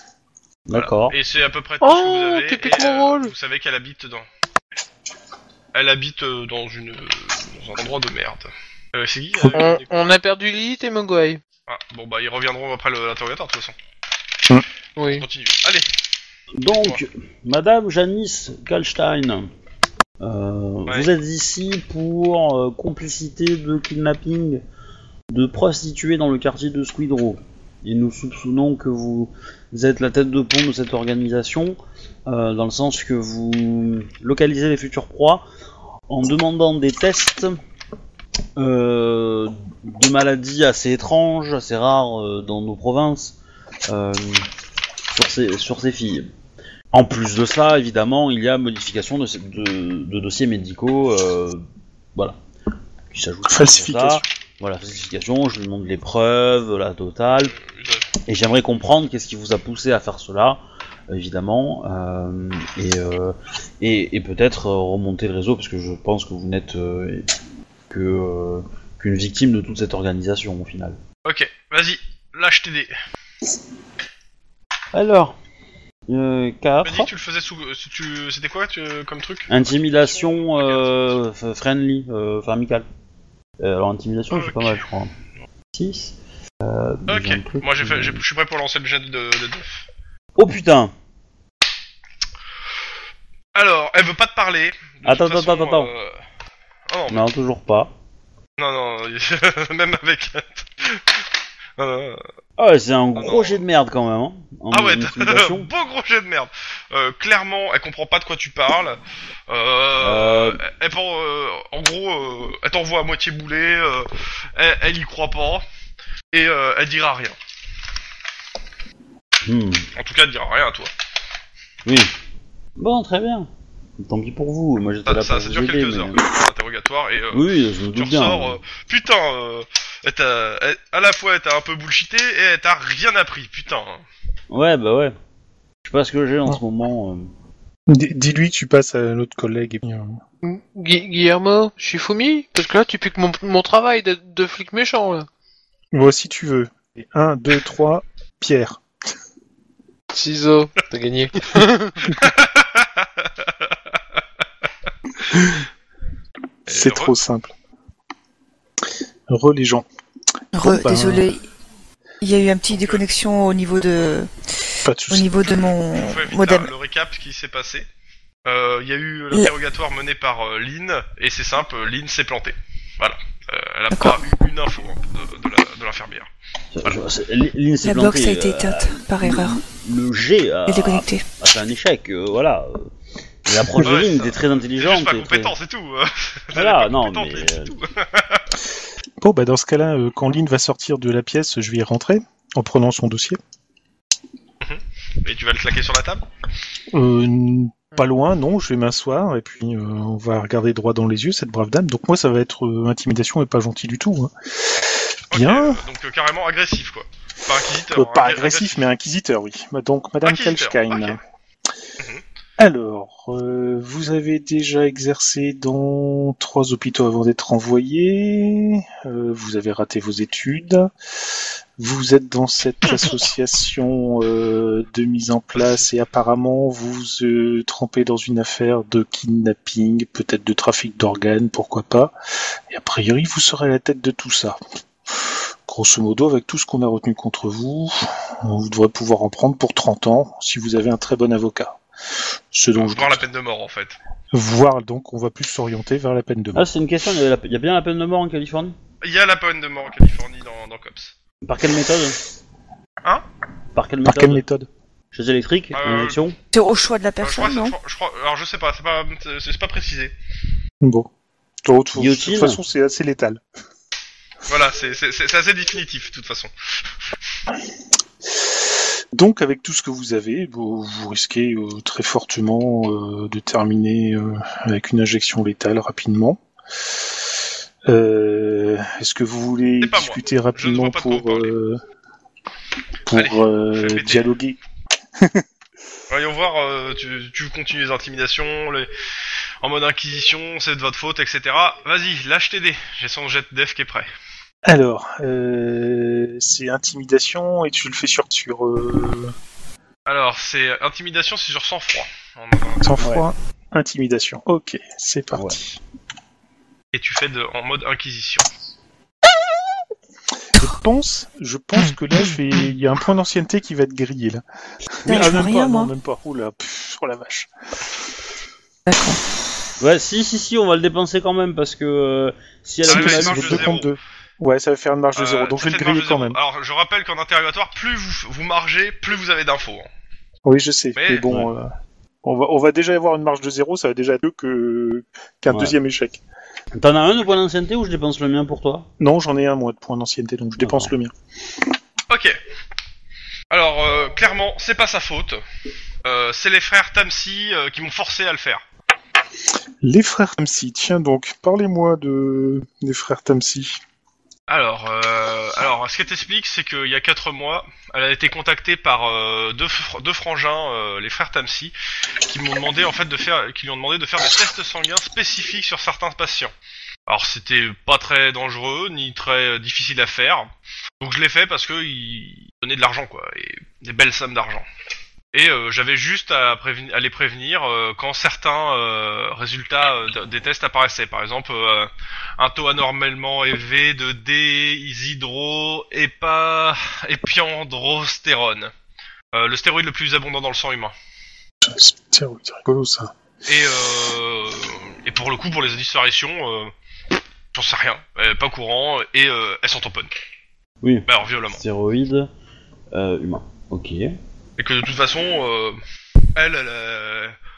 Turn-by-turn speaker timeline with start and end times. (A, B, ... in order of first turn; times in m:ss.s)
0:00.7-0:01.2 A
0:00.7-0:04.3 B
0:01.8-0:03.3 C
0:05.7-0:10.1 B
0:09.5-0:11.4 C
0:11.7-0:13.7 B
0:15.0-0:15.3 C
0:15.2-0:15.9 B
0:16.6-0:19.5 A
0:16.7-0:17.0 B
0:20.2-0:24.6 A
0:25.3-0:35.4 A
0:36.1-0:37.6 A
0:38.6-0:43.4 A
0:43.9-0:44.5 A
0:45.1-0:46.3 A
0:46.9-0:51.6 A
0:53.1-0:57.6 A
0:53.5-0:54.2 D
0:57.4-0:58.0 B
0:58.3-1:07.3 A
1:07.9-1:11.0 A
1:11.2-1:12.9 B
1:14.9-1:15.4 A
1:16.1-1:17.1 A
1:16.8-1:21.2 B
1:19.5-1:22.8 A
1:23.6-1:25.1 A
1:24.3-1:24.8 B
1:25.7-1:28.2 A
1:27.1-1:29.8 B
1:30.4-1:30.9 A
1:33.6-1:36.1 B
1:35.0-1:35.9 A
1:36.9-1:37.3 B
1:37.1-1:37.9 A
1:38.6-1:41.2 B
1:41.8-1:42.2 B
1:42.6-1:45.7 A
1:43.2-1:43.6 B
1:44.7-1:55.6 B
1:50.0-1:50.6 A
1:56.3-1:57.4 B
1:59.4-1:59.9 A
2:00.0-2:00.9 B
2:01.8-2:02.1 A
2:02.8-2:03.5 A
2:04.0-2:06.2 A
2:05.0-2:14.0 B
2:07.3-2:08.6 A
2:14.5-2:15.1 A
2:15.8-2:17.3 A
2:17.9-2:20.2 D
2:20.4-2:25.3 C
2:25.9-2:28.8 D
2:30.1-2:32.0 C
2:32.1-2:33.5 B
2:36.7-2:37.2 B
2:36.7-2:37.5 D
2:39.3-2:39.8 D
2:40.5-2:41.4 E
2:40.6-2:41.2 D
2:42.2-2:44.3 E
2:42.7-2:43.0 B
2:44.8-2:45.3 D
2:45.1-2:46.7 E
2:45.4-2:47.9 B
2:48.4-2:56.3 B
2:53.9-2:54.2 E
2:56.7-3:02.9 A
2:57.8-2:59.6 E
3:00.7-3:01.2 E
3:03.4-3:05.5 A
3:03.8-3:08.4 B
3:06.5-3:07.7 A
3:09.2-3:13.4 D
3:14.6-3:16.2 B
3:16.9-3:24.7 D
3:25.3-3:28.9 B
3:25.3-3:25.8 D
3:27.9-3:31.2 D
3:30.2-3:31.2 B
3:32.6-3:40.9 D
3:41.8-3:52.1 D
3:42.8-3:43.3 B
3:45.5-3:45.9 B
3:52.7-4:01.8 D
4:02.5-4:03.2 D
4:02.7-4:04.0 B
4:04.3-4:06.6 D
4:06.6-4:08.7 A
4:09.0-4:11.1 B
4:11.4-4:12.2 A
4:13.7-4:14.4 A
4:14.0-4:14.7 D
4:15.1-4:16.3 A
4:15.7-4:16.2 B
4:16.5-4:17.7 E
4:17.2-4:20.1 B
4:20.8-4:21.1 D
4:21.6-4:23.4 D
4:21.9-4:22.6 A
4:24.5-4:27.1 B
4:29.1-4:36.4 D
4:37.9-4:41.8 D
4:39.8-4:41.6 B
4:43.1-4:44.6 D
4:43.1-4:44.3 B
4:46.1-4:48.9 B
4:49.6-4:54.1 B
4:54.6-4:59.3 D
5:00.1-5:03.0 B
5:02.8-5:05.8 D
5:06.9-5:08.5 B
5:10.6-5:14.4 D
5:15.0-5:17.5 D
5:15.0-5:15.9 E
5:18.8-5:19.2 E
5:19.8-5:23.7 A
5:22.8-5:26.4 D
5:22.9-5:24.0 B
5:25.2-5:29.9 B
5:30.4-5:31.7 D
5:31.0-5:31.3 B
5:32.2-5:36.2 D
5:35.5-5:35.8 A
5:36.7-5:38.9 A
5:39.0-5:41.1 D
5:40.6-5:40.9 A
5:42.1-5:42.4 B
5:43.5-5:45.4 B
5:46.0-5:48.6 B
5:49.8-5:53.8 D
5:54.5-6:01.7 B
6:02.3-6:06.5 B
6:07.1-6:10.5 B
6:11.0-6:14.6 B
6:15.3-6:28.7 B
6:29.3-6:30.9 B
6:31.6-6:33.1 D
6:33.4-6:36.7 B
6:37.5-6:40.1 B
6:40.8-6:42.3 A
6:41.1-6:41.6 B
6:42.9-6:44.1 A
6:44.6-6:45.8 B
6:46.4-6:47.4 B